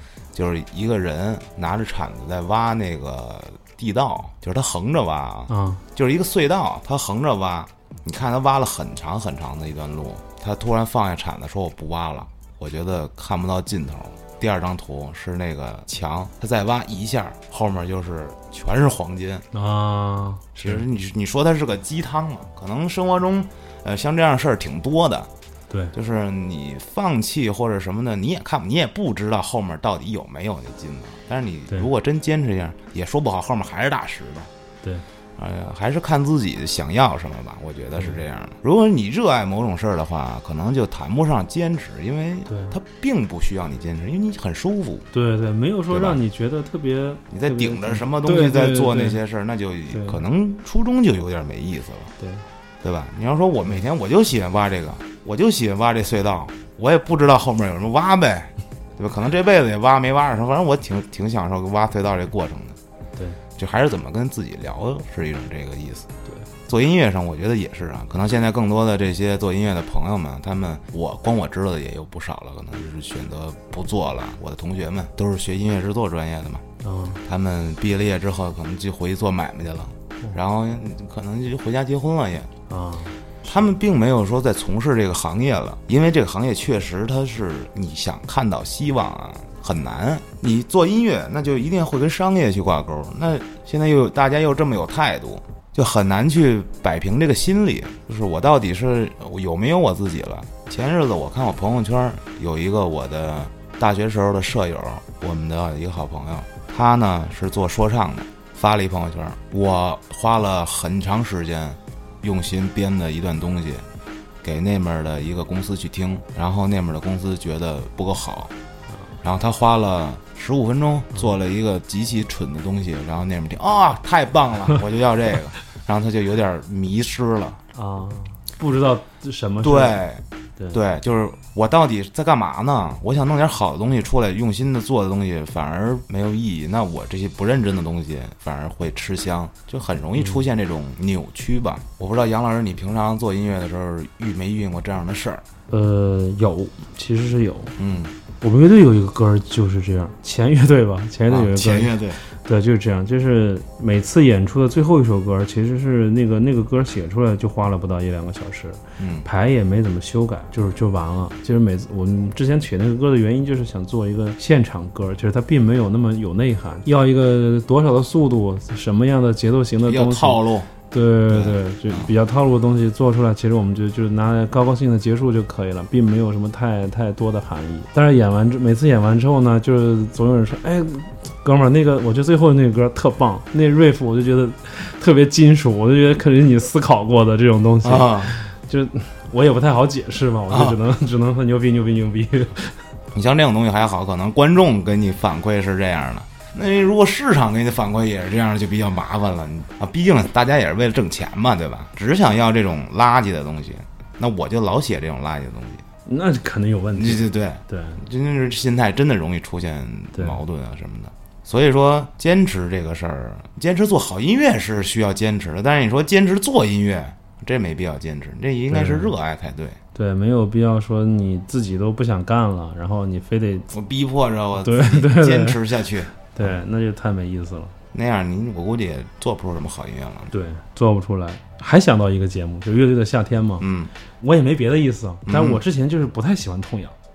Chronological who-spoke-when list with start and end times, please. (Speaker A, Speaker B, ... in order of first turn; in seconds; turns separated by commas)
Speaker A: 0.3-19.5, Speaker B: 5.5-5.8, Speaker B: 19.5-20.8, Speaker A: 20.6-25.3, Speaker A: 25.9-34.5, Speaker A: 35.4-45.1, Speaker B: 42.5-42.8, Speaker B: 45.1-49.2, Speaker A: 45.9-46.2, Speaker A: 47.3-52.1, Speaker B: 49.9-50.2, Speaker A: 52.8-62.8, Speaker A: 63.6-66.1, Speaker A: 66.7-76.6, Speaker B: 76.8-77.2, Speaker A: 77.2-82.5, Speaker B: 82.7-83.2, Speaker A: 83.5-113.9, Speaker A: 114.4-118.5, Speaker A: 119.2-127.6, Speaker B: 127.8-130.0, Speaker A: 129.6-145.4, Speaker B: 140.2-140.4, Speaker B: 145.7-147.8, Speaker A: 147.8-148.1, Speaker B: 148.4-170.4, Speaker A: 151.3-152.2, Speaker A: 159.0-159.2, Speaker A: 169.9-170.7, Speaker B: 170.9-192.8, Speaker A: 171.3-172.1, Speaker A: 187.8-188.3, Speaker A: 190.5-190.8, Speaker A: 193.1-205.8, Speaker B: 206.1-208.0, Speaker A: 207.0-219.8, Speaker B: 218.7-219.1, Speaker B: 219.9-223.7, Speaker A: 223.7-226.6, Speaker B: 224.6-225.6, Speaker B: 226.2-227.7, Speaker A: 227.9-230.3, Speaker B: 230.3-233.7, Speaker A: 233.6-233.9, Speaker B: 234.2-237.0, Speaker A: 235.2-235.6